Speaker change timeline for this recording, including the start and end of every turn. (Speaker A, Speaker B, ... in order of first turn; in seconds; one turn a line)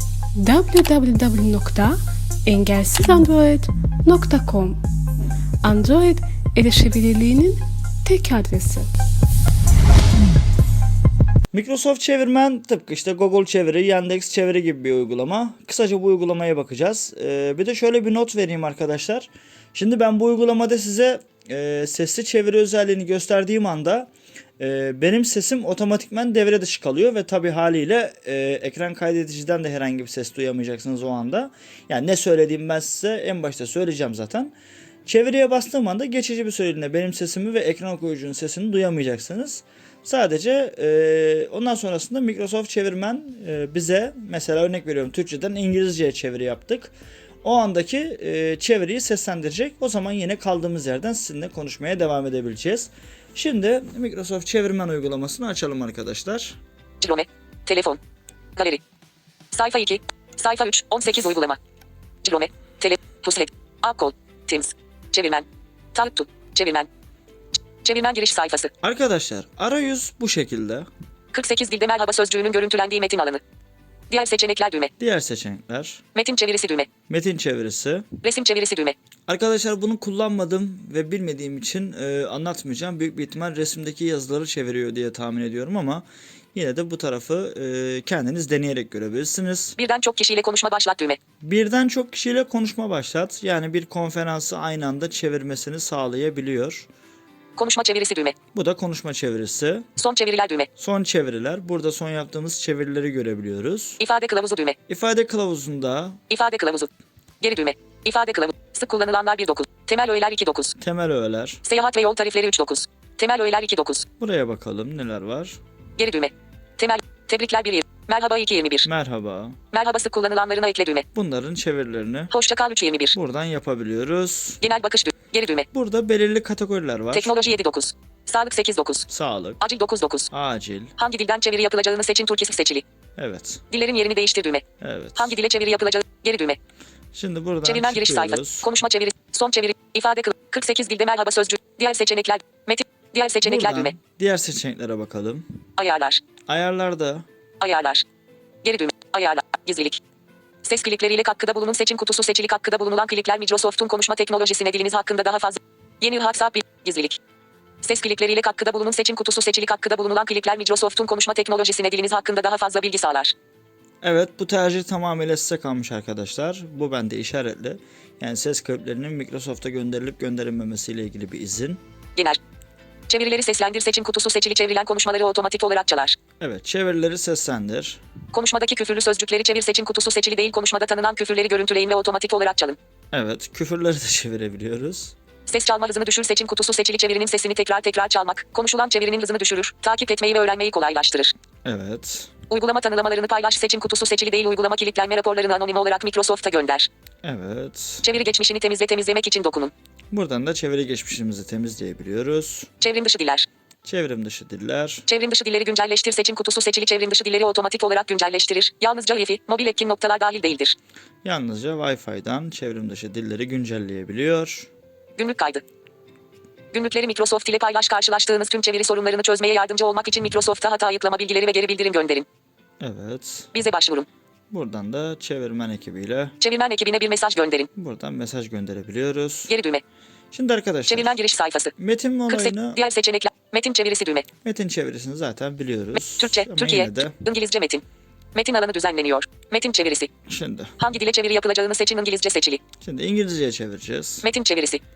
Speaker A: 0.4-4.8
Speaker A: 5.6-8.9
Speaker B: 11.5-34.5
Speaker B: 35.0-56.6
Speaker C: 57.0-58.0
Speaker C: 58.5-58.8
Speaker C: 59.5-61.6
Speaker C: 62.2-66.9
Speaker C: 67.8-68.7
Speaker B: 68.8-70.9
Speaker C: 71.3-73.4
Speaker C: 74.1-74.9
Speaker B: 75.0-76.0
Speaker C: 76.1-76.9
Speaker B: 77.1-78.0
Speaker C: 78.2-79.0
Speaker B: 79.3-89.8
Speaker C: 89.8-91.2
Speaker B: 91.4-96.9
Speaker C: 97.6-98.3
Speaker B: 98.5-99.8
Speaker C: 100.0-100.7
Speaker B: 100.8-104.0
Speaker C: 104.0-104.8
Speaker B: 104.9-106.2
Speaker C: 106.3-106.9
Speaker C: 107.4-110.8
Speaker B: 110.8-111.6
Speaker C: 111.6-114.1
Speaker B: 114.2-115.6
Speaker C: 116.0-118.9
Speaker B: 118.8-119.6
Speaker C: 119.7-121.1
Speaker B: 121.1-122.3
Speaker C: 122.3-123.1
Speaker B: 123.1-124.6
Speaker C: 124.6-125.7
Speaker B: 125.7-127.3
Speaker C: 127.1-129.1
Speaker B: 129.1-129.6
Speaker C: 129.6-130.3
Speaker B: 130.3-130.9
Speaker C: 131.0-132.8
Speaker B: 133.2-133.6
Speaker C: 133.7-134.6
Speaker B: 134.8-135.3
Speaker C: 135.2-136.6
Speaker B: 137.1-138.7
Speaker C: 137.6-143.9
Speaker B: 143.4-145.5
Speaker C: 145.8-146.2
Speaker B: 146.5-147.2
Speaker C: 147.6-148.0
Speaker C: 148.6-150.0
Speaker C: 150.6-157.2
Speaker C: 157.8-163.3
Speaker B: 164.0-171.8
Speaker C: 173.1-176.2
Speaker B: 176.4-178.0
Speaker C: 178.3-182.8
Speaker B: 183.1-185.1
Speaker C: 185.5-191.3
Speaker B: 191.6-192.3
Speaker C: 192.5-196.9
Speaker B: 197.2-198.0
Speaker C: 198.0-199.7
Speaker B: 200.1-202.7
Speaker C: 202.8-203.5
Speaker B: 203.8-205.0
Speaker C: 205.1-210.8
Speaker B: 211.2-214.7
Speaker C: 215.2-215.6
Speaker C: 216.7-222.2
Speaker B: 222.8-223.5
Speaker C: 223.5-224.1
Speaker B: 224.5-226.3
Speaker C: 226.4-227.7
Speaker B: 227.8-229.5
Speaker C: 229.5-229.8
Speaker B: 230.3-231.2
Speaker C: 230.9-231.7
Speaker B: 231.8-232.8
Speaker C: 232.3-234.3
Speaker B: 234.4-237.2
Speaker C: 235.9-237.8
Speaker C: 238.3-240.1
Speaker B: 240.3-240.7
Speaker C: 240.8-242.6
Speaker B: 242.8-244.3
Speaker C: 244.2-244.8